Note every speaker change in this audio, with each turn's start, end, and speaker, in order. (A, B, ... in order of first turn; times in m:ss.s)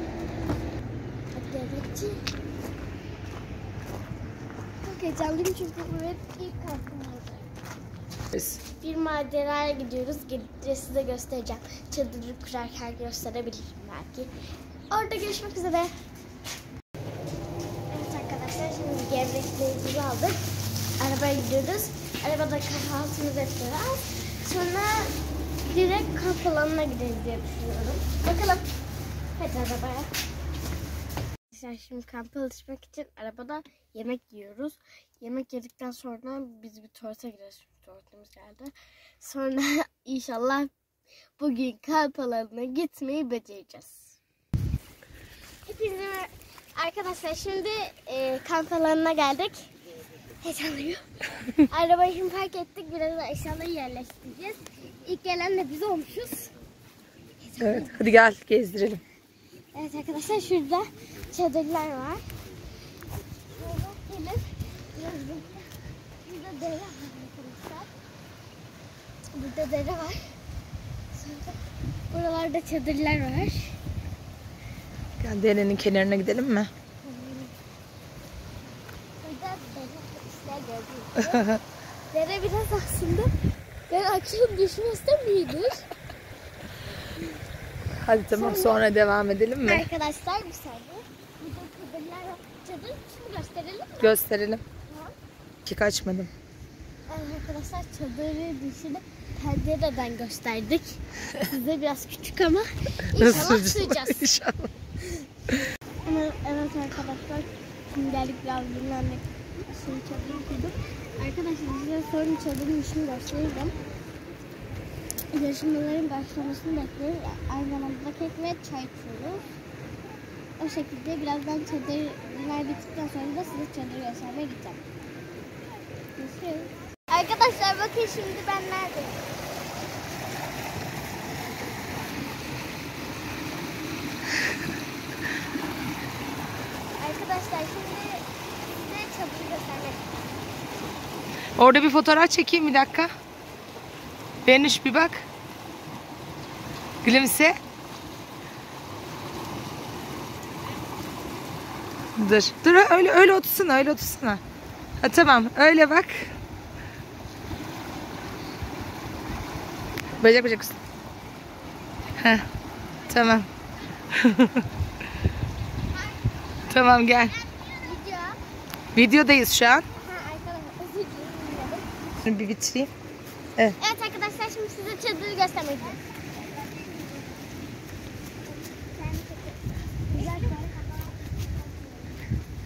0:01.3-0:02.2 A
0:04.8-0:07.5 A
0:08.8-0:14.3 A
0:14.9-0:15.9 A
0:17.9-0:28.6 A
0:29.4-0:30.1 A
0:31.5-0:40.7 A
0:41.4-0:44.2 A
0:45.6-0:49.7 A
0:50.4-0:56.5 A
0:57.4-0:58.1 A
0:57.6-0:59.0 B
0:59.7-1:02.2 A
1:03.5-1:05.7 A
1:06.2-1:07.9 A
1:09.3-1:10.4 A
1:11.1-1:11.6 A
1:12.1-1:13.8 A
1:15.2-1:16.7 B
1:17.0-1:17.5 A
1:19.2-1:21.5 A
1:21.3-1:21.6 B
1:22.1-1:23.3 A
1:23.9-1:25.9 A
1:28.0-1:29.8 B
1:28.3-1:28.8 A
1:29.6-1:34.1 A
1:34.0-1:34.6 B
1:34.9-1:35.1 A
1:35.6-1:36.3 B
1:37.1-1:44.3 A
1:43.1-1:44.6 B
1:46.0-1:53.8 A
1:55.3-1:59.4 A
2:00.6-2:04.8 A
2:06.2-2:09.2 A
2:17.0-2:20.2 A
2:21.6-2:23.1 B
2:24.4-2:25.2 B
2:27.0-2:27.6 B
2:32.2-2:34.4 B
2:35.0-2:36.3 B
2:40.2-2:40.8 B
2:42.2-2:42.4 B
2:43.1-2:43.5 B
2:44.1-2:44.6 B
2:46.7-2:47.3 B
2:47.8-2:48.4 A
2:48.9-2:49.8 B
2:50.0-2:52.0 A
2:52.2-2:52.9 B
2:53.8-2:56.0 A
2:58.7-3:01.0 A